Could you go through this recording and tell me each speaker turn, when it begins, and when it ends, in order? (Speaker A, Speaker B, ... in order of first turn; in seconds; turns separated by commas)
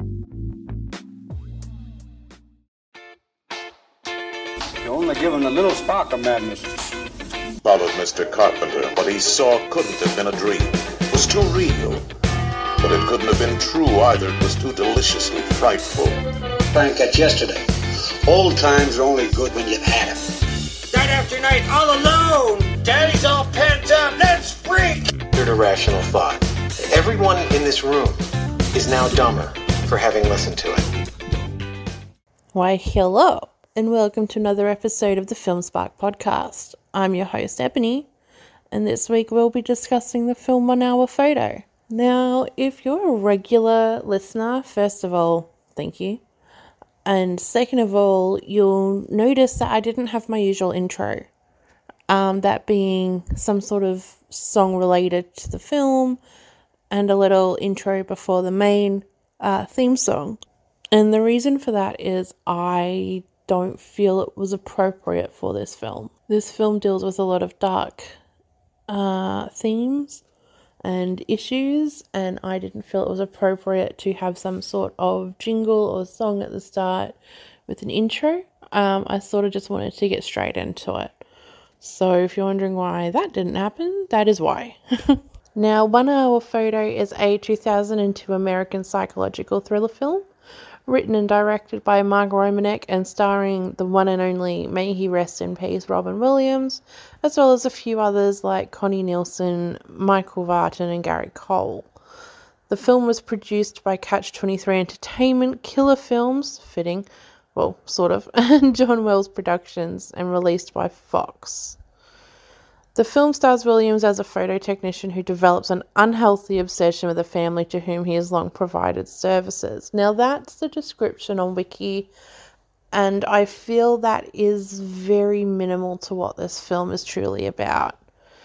Speaker A: 4.8-6.7, Speaker B: 7.6-12.0, Speaker B: 12.8-16.1, Speaker A: 16.7-17.6, Speaker A: 18.2-20.2, Speaker C: 20.9-25.0, Speaker D: 25.3-28.2, Speaker D: 28.7-30.8, Speaker E: 32.5-38.1, Speaker E: 38.7-46.2, Speaker E: 47.0-51.3, Speaker E: 52.1-56.2, Speaker E: 56.9-60.4, Speaker E: 60.9-68.1, Speaker E: 68.9-70.2, Speaker E: 70.8-77.2, Speaker E: 77.7-81.2, Speaker E: 81.8-90.3, Speaker E: 90.9-101.9, Speaker E: 102.7-111.8, Speaker E: 112.9-122.1, Speaker E: 122.9-128.0